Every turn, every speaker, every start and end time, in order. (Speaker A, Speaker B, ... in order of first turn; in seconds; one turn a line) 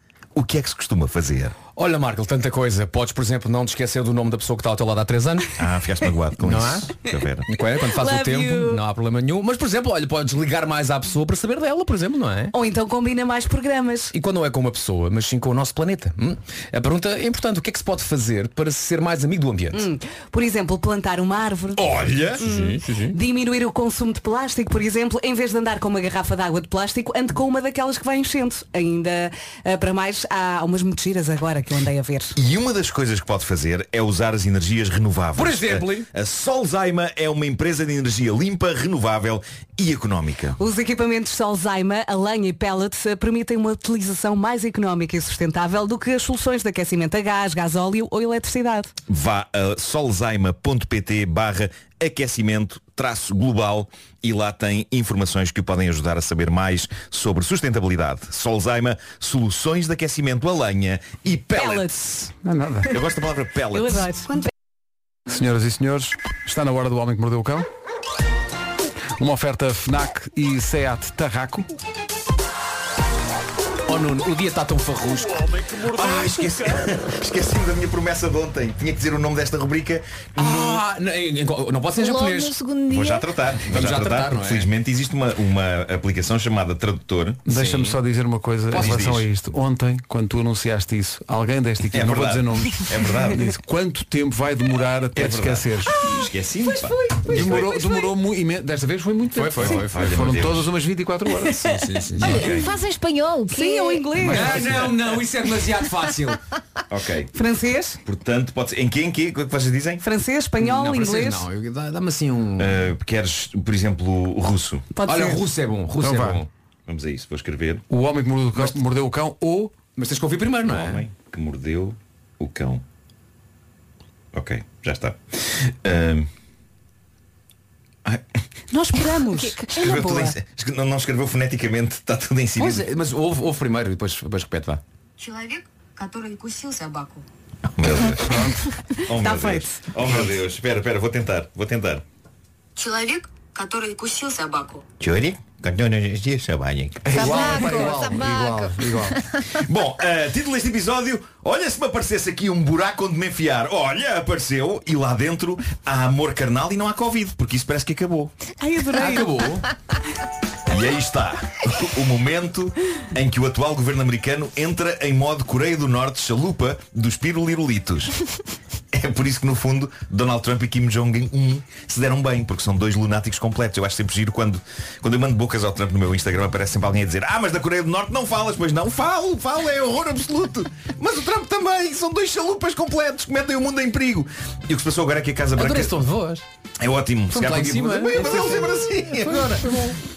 Speaker A: 0.3-1.5
Speaker B: 1.7-5.5
Speaker A: 5.6-7.5
Speaker B: 6.4-6.9
Speaker B: 7.5-12.5
Speaker C: 7.8-8.8
Speaker C: 12.5-14.1
Speaker B: 14.1-19.8
Speaker C: 19.7-21.8
Speaker B: 21.8-23.1
Speaker A: 21.9-22.4
Speaker C: 22.4-32.3
Speaker A: 32.4-40.6
Speaker B: 35.4-36.1
Speaker C: 40.6-48.9
Speaker A: 49.1-62.3
Speaker C: 61.5-62.3
Speaker D: 62.4-62.9
Speaker A: 62.9-64.1
Speaker C: 63.7-64.5
Speaker D: 65.3-67.7
Speaker D: 69.2-71.7
Speaker B: 73.9-75.7
Speaker A: 75.8-80.8
Speaker B: 80.3-82.5
Speaker E: 82.0-83.3
Speaker A: 82.9-87.4
Speaker B: 83.7-84.7
Speaker D: 87.5-96.0
Speaker B: 87.5-88.0
Speaker B: 88.7-89.0
Speaker A: 88.7-89.3
Speaker A: 91.9-93.5
Speaker A: 95.1-97.8
Speaker C: 96.7-98.0
Speaker D: 97.3-101.8
Speaker B: 99.3-100.5
Speaker A: 99.8-100.7
Speaker B: 101.6-102.5
Speaker E: 102.2-104.1
Speaker A: 102.2-102.7
Speaker C: 103.5-104.9
Speaker D: 104.2-104.9
Speaker B: 104.2-106.4
Speaker A: 106.9-107.3
Speaker C: 107.3-108.0
Speaker A: 108.0-110.0
Speaker C: 110.0-111.5
Speaker B: 110.6-112.9
Speaker A: 112.6-114.9
Speaker C: 114.9-115.4
Speaker B: 115.0-116.5
Speaker D: 116.0-116.4
Speaker A: 116.9-117.8
Speaker D: 117.9-119.7
Speaker B: 120.0-121.0
Speaker A: 120.6-122.8
Speaker A: 124.3-126.3
Speaker C: 128.7-130.3
Speaker E: 129.3-129.6
Speaker A: 129.7-132.9
Speaker B: 132.6-134.8
Speaker F: 135.2-137.2
Speaker A: 137.7-138.5
Speaker D: 138.2-138.6
Speaker A: 139.1-142.0
Speaker C: 139.1-139.9
Speaker F: 142.8-144.8
Speaker A: 145.0-148.0
Speaker D: 147.0-149.2
Speaker E: 147.1-149.2
Speaker A: 149.5-158.3
Speaker C: 158.6-159.5
Speaker B: 159.0-159.7
Speaker A: 160.7-168.1
Speaker A: 168.9-186.0
Speaker B: 185.6-186.4
Speaker A: 186.8-189.7
Speaker B: 187.3-189.9